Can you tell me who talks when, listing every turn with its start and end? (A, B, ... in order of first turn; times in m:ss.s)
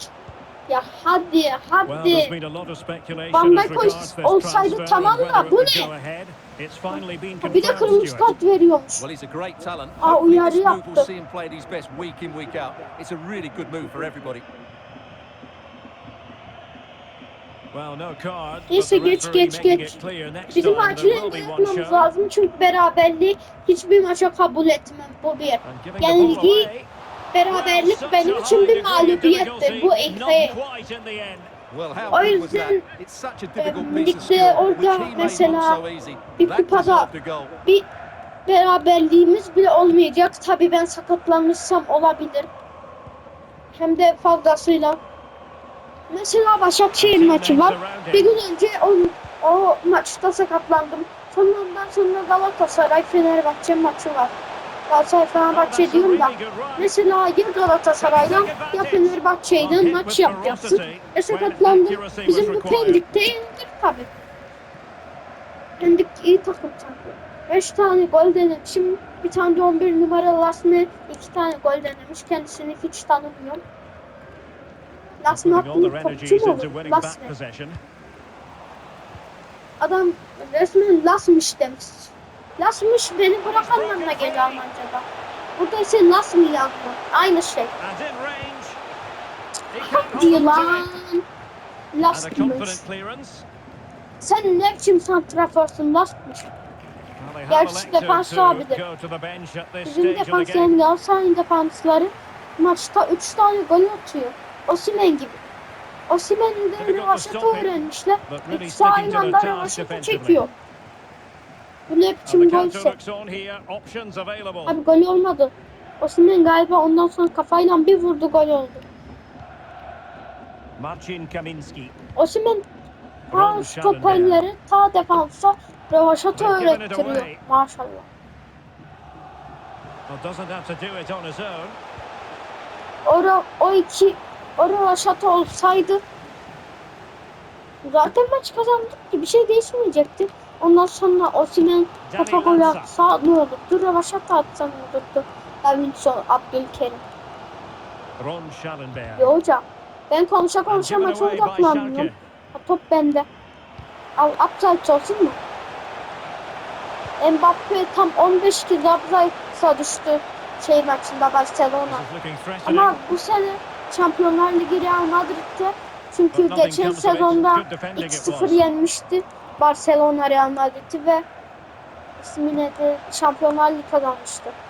0:00.7-0:02.3 A
0:01.8-0:08.4 B
0:03.3-0:05.9 A
0:07.4-0:09.0 A
0:09.0-0:14.5 C
0:10.0-0:11.1 A
0:17.7-0:22.1 B
0:18.7-0:20.0 A
0:20.5-0:26.7 A
0:25.6-0:26.9 B
0:27.3-0:30.6 A
0:27.5-0:31.5 B
0:31.7-0:37.6 C
0:32.1-0:32.9 A
0:33.6-0:35.8 A
0:36.4-0:37.1 A
0:38.5-0:42.5 A
0:43.8-0:45.0 A
0:46.1-0:54.3 A
0:47.0-0:48.4 B
0:54.9-1:04.1 A
0:55.5-0:56.9 B
0:58.0-1:03.0 B
1:05.8-1:13.6 A
1:15.2-1:17.3 A
1:15.3-1:17.8 B
1:19.8-1:27.7 A
1:23.4-1:24.7 B
1:27.8-1:28.8 B
1:29.7-1:30.9 B
1:29.8-1:31.2 A
1:31.9-1:32.8 A
1:32.1-1:33.4 B
1:34.2-1:36.5 A
1:37.2-1:40.8 B
1:37.5-1:38.8 A
1:39.8-1:45.4 A
1:46.1-1:50.5 A
1:46.8-1:50.5 B
1:51.9-1:53.0 A
1:52.3-1:54.8 B
1:54.7-1:58.8 A
2:00.8-2:01.9 B
2:02.2-2:02.7 A
2:03.3-2:04.4 B
2:03.3-2:08.1 A
2:06.4-2:07.4 B
2:10.1-2:11.8 B
2:13.0-2:16.0 A
2:17.8-2:27.0 A
2:22.1-2:22.9 B
2:28.2-2:29.3 B
2:29.2-2:33.3 A
2:30.7-2:32.2 B
2:34.2-2:35.4 A
2:37.2-2:42.0 A
2:41.9-2:43.0 B
2:42.7-2:51.2 A
2:46.3-2:48.7 B
2:52.2-2:54.6 A